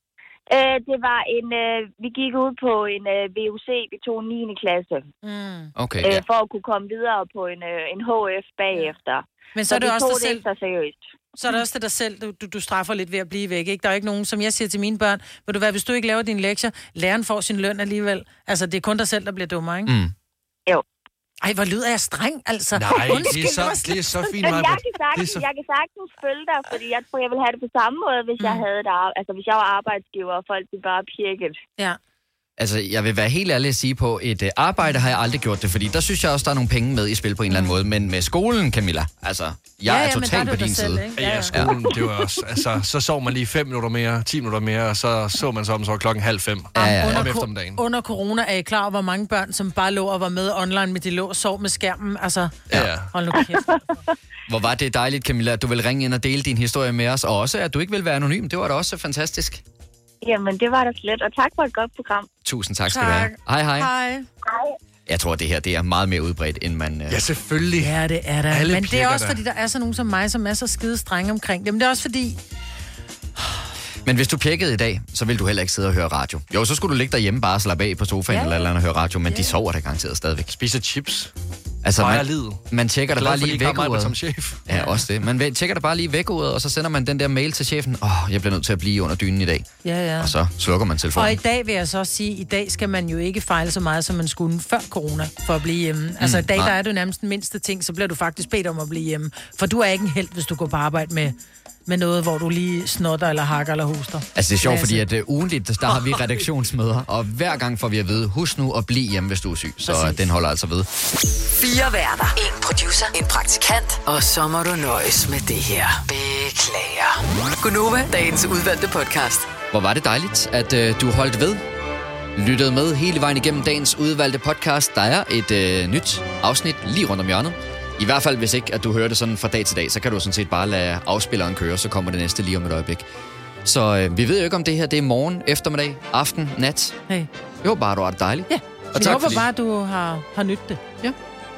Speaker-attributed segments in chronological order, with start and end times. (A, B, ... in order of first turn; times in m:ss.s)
0:00.5-0:05.1 A
0:05.2-0:05.7 B
0:05.8-0:06.2 C
0:06.0-0:11.1 A
0:09.6-0:10.4 B
0:11.4-0:19.9 B
0:19.9-0:20.1 C
0:21.4-0:24.4 B
0:22.8-0:25.4 D
0:23.0-0:23.3 A
0:24.4-0:31.6 A
0:28.4-0:28.7 B
0:32.6-0:41.8 C
0:37.5-0:37.8 B
0:39.9-0:41.6 B
0:41.2-0:47.8 D
0:46.8-0:53.8 B
0:46.8-0:47.4 C
0:52.7-0:53.1 D
0:53.5-0:53.8 A
0:54.5-0:59.6 C
1:00.2-1:02.3 A
1:02.4-1:03.9 C
1:02.9-1:04.3 B
1:05.1-1:07.2 C
1:07.1-1:08.0 D
1:07.8-1:12.4 B
1:08.5-1:09.4 D
1:14.0-1:20.5 C
1:18.3-1:18.7 B
1:19.3-1:19.6 B
1:20.5-1:21.3 D
1:21.8-1:29.7 C
1:22.0-1:24.6 D
1:24.7-1:25.0 B
1:29.8-1:30.4 B
1:30.2-1:31.4 C
1:31.1-1:41.4 B
1:36.2-1:36.7 C
1:41.9-1:45.0 B
1:44.4-1:50.9 C
1:49.9-1:50.2 B
1:51.5-1:59.5 E
1:59.7-2:01.6 C
2:02.4-2:13.0 C
2:13.6-2:17.0 C
2:17.6-2:19.5 C
2:18.5-2:20.8 B
2:19.0-2:19.5 D